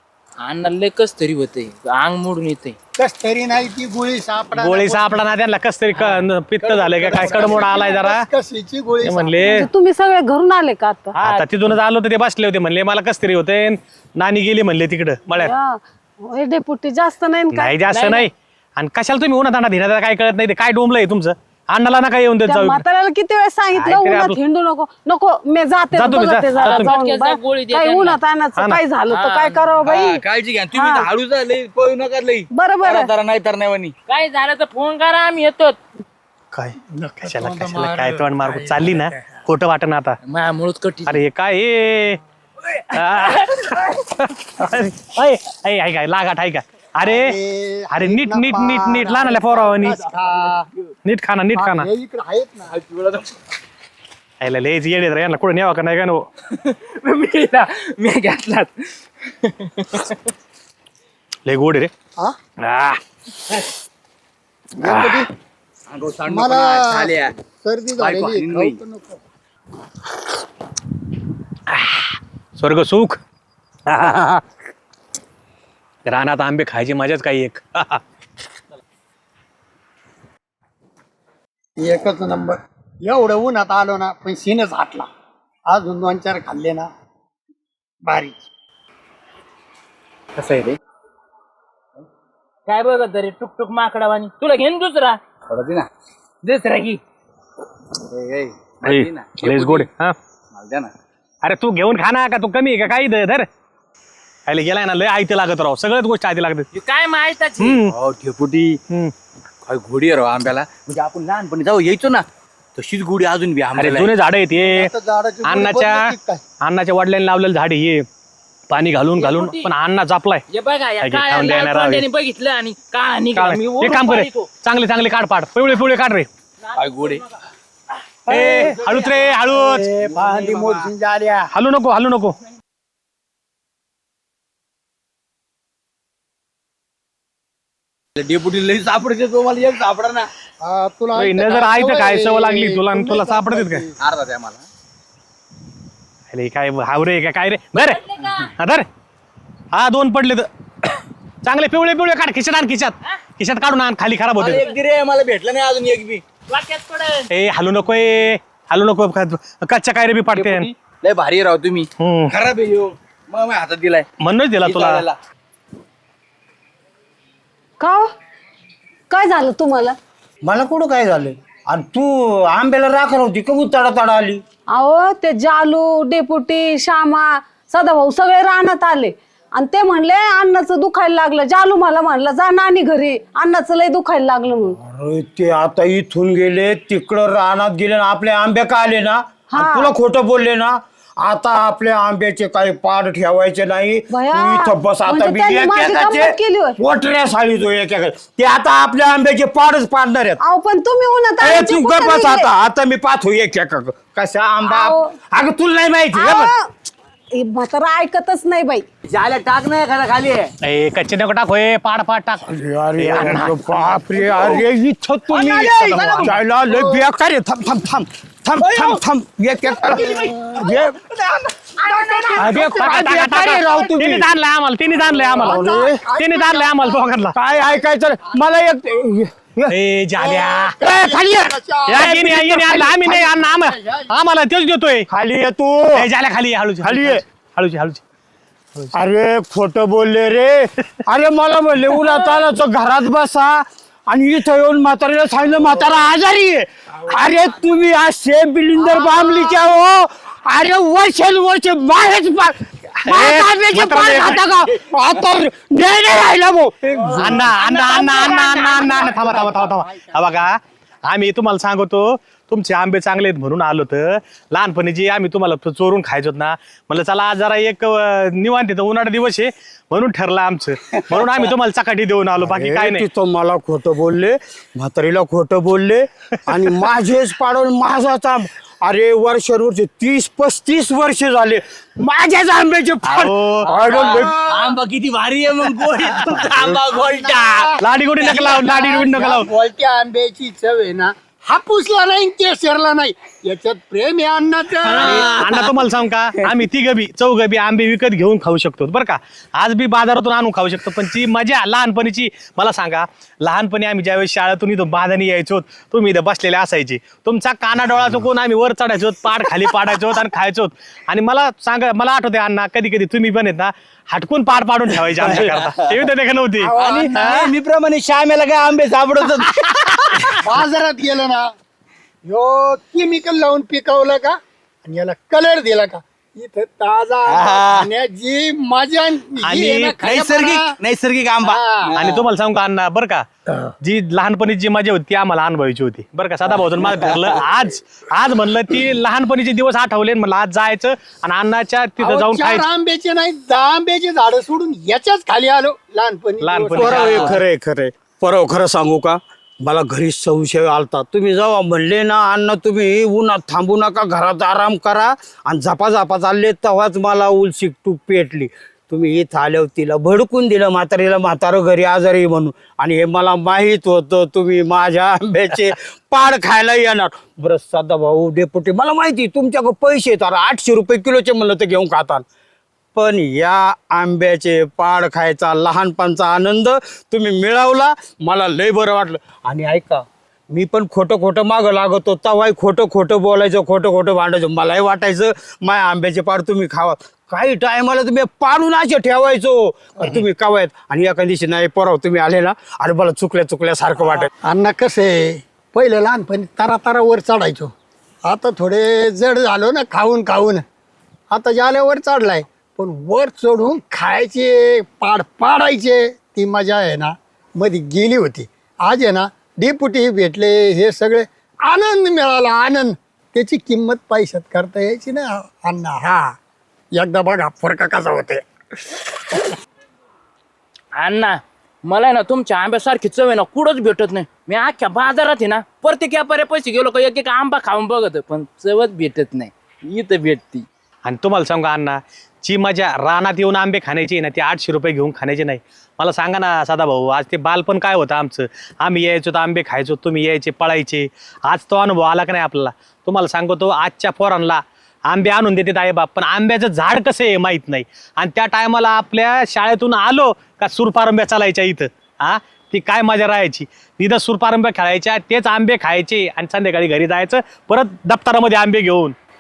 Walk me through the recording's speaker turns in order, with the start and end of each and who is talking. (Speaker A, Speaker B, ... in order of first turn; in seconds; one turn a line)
Speaker A: 0.4-2.8
Speaker B: 3.0-5.3
Speaker C: 4.6-8.2
Speaker A: 6.0-6.2
Speaker B: 6.6-9.5
Speaker D: 7.2-7.5
Speaker C: 9.0-9.7
Speaker E: 9.4-11.2
Speaker A: 11.2-11.8
Speaker C: 11.3-15.5
Speaker E: 15.4-17.8
Speaker C: 17.5-22.8
Speaker A: 17.9-18.3
Speaker E: 22.5-30.2
Speaker C: 23.8-24.4
Speaker C: 25.9-26.9
Speaker A: 26.6-28.2
Speaker A: 29.1-29.8
Speaker D: 29.8-33.9
Speaker E: 30.7-31.1
Speaker E: 32.5-33.1
Speaker A: 34.1-35.8
Speaker C: 36.5-40.2
Speaker B: 36.9-39.3
Speaker A: 40.3-41.2
Speaker C: 41.1-42.2
Speaker C: 42.9-47.4
Speaker A: 43.1-44.0
Speaker B: 47.0-50.7
Speaker C: 47.9-50.1
Speaker C: 51.0-51.9
Speaker B: 51.5-52.8
Speaker D: 52.7-53.3
Speaker C: 54.4-56.3
Speaker A: 56.5-60.2
Speaker C: 61.5-61.9
Speaker C: 62.6-63.0
Speaker B: 64.8-65.3
Speaker C: 64.8-65.2
Speaker D: 65.9-67.3
Speaker B: 66.3-69.2
Speaker D: 68.0-68.8
Speaker C: 71.7-73.2
Speaker C: 73.9-74.4
Speaker C: 76.1-78.0
Speaker B: 81.8-85.1
Speaker B: 85.7-86.9
Speaker B: 88.0-88.3
Speaker A: 90.4-90.8
Speaker A: 92.7-95.2
Speaker D: 95.5-95.9
Speaker A: 96.4-97.0
Speaker D: 98.1-99.9
Speaker C: 98.8-100.2
Speaker D: 100.5-100.9
Speaker C: 101.4-103.5
Speaker C: 104.5-106.7
Speaker A: 106.7-107.8
Speaker C: 107.6-107.9
Speaker D: 107.9-108.8
Speaker D: 109.7-114.1
Speaker C: 113.8-114.9
Speaker B: 114.6-116.4
Speaker C: 115.5-118.1
Speaker C: 118.7-120.4
Speaker A: 119.2-119.7
Speaker A: 120.5-124.5
Speaker C: 121.0-122.0
Speaker C: 123.3-126.3
Speaker A: 126.7-127.2
Speaker D: 126.8-127.2
Speaker B: 128.3-131.5
Speaker C: 128.3-129.9
Speaker D: 130.0-130.9
Speaker C: 131.5-132.4
Speaker D: 138.2-140.3
Speaker B: 140.6-143.9
Speaker C: 141.2-143.8
Speaker D: 144.0-144.6
Speaker C: 146.3-148.9
Speaker A: 147.7-148.5
Speaker C: 149.7-150.9
Speaker C: 151.4-154.6
Speaker D: 154.4-156.2
Speaker A: 156.5-157.3
Speaker C: 157.3-160.7
Speaker D: 160.3-164.1
Speaker C: 162.0-162.3
Speaker C: 164.2-165.0
Speaker D: 164.6-165.2
Speaker E: 167.8-168.1
Speaker E: 169.1-170.0
Speaker F: 170.4-174.4
Speaker E: 174.7-184.8
Speaker F: 184.8-200.4
Speaker E: 189.5-189.9
Speaker E: 194.1-196.8
Speaker E: 200.4-202.5
Speaker F: 201.4-206.5
Speaker E: 204.6-205.1
Speaker E: 206.1-206.7
Speaker E: 207.4-208.8
Speaker D: 209.1-210.5
Speaker C: 210.6-212.4
Speaker F: 212.4-221.0
Speaker C: 213.0-213.6
Speaker D: 213.2-214.6
Speaker D: 215.3-216.3
Speaker B: 215.6-216.3
Speaker C: 215.9-216.1
Speaker D: 218.7-219.0
Speaker D: 219.8-220.6
Speaker B: 219.9-220.6
Speaker B: 221.8-223.8
Speaker F: 222.3-224.3
Speaker C: 222.4-227.3
Speaker B: 225.0-227.1
Speaker F: 225.3-226.0
Speaker F: 227.3-229.8
Speaker C: 229.7-230.8
Speaker B: 230.2-234.1
Speaker F: 230.9-232.4
Speaker C: 231.9-235.1
Speaker F: 235.1-236.1
Speaker C: 235.9-238.0
Speaker F: 236.8-237.2
Speaker F: 238.9-257.5
Speaker C: 253.1-254.4
Speaker A: 257.0-259.7
Speaker C: 257.1-273.1
Speaker F: 272.4-284.3
Speaker D: 283.1-287.8
Speaker C: 283.2-283.7
Speaker B: 283.7-284.8
Speaker B: 286.2-295.5
Speaker C: 287.8-289.5
Speaker C: 294.8-317.5
Speaker D: 294.9-295.7
Speaker D: 315.2-316.0
Speaker B: 316.6-317.4
Speaker D: 316.7-320.5
Speaker B: 320.4-321.5
Speaker B: 322.2-330.8
Speaker D: 327.3-327.9
Speaker C: 329.4-329.9
Speaker D: 329.9-332.2
Speaker B: 331.4-332.0
Speaker C: 331.9-333.2
Speaker C: 333.8-342.7
Speaker D: 336.5-337.4
Speaker B: 342.0-347.4
Speaker C: 346.4-347.4
Speaker F: 346.7-372.2
Speaker F: 372.9-394.3
Speaker B: 394.4-397.7
Speaker B: 398.2-400.6
Speaker B: 401.3-416.4
Speaker B: 416.9-418.4
Speaker A: 420.9-430.7
Speaker C: 431.0-459.2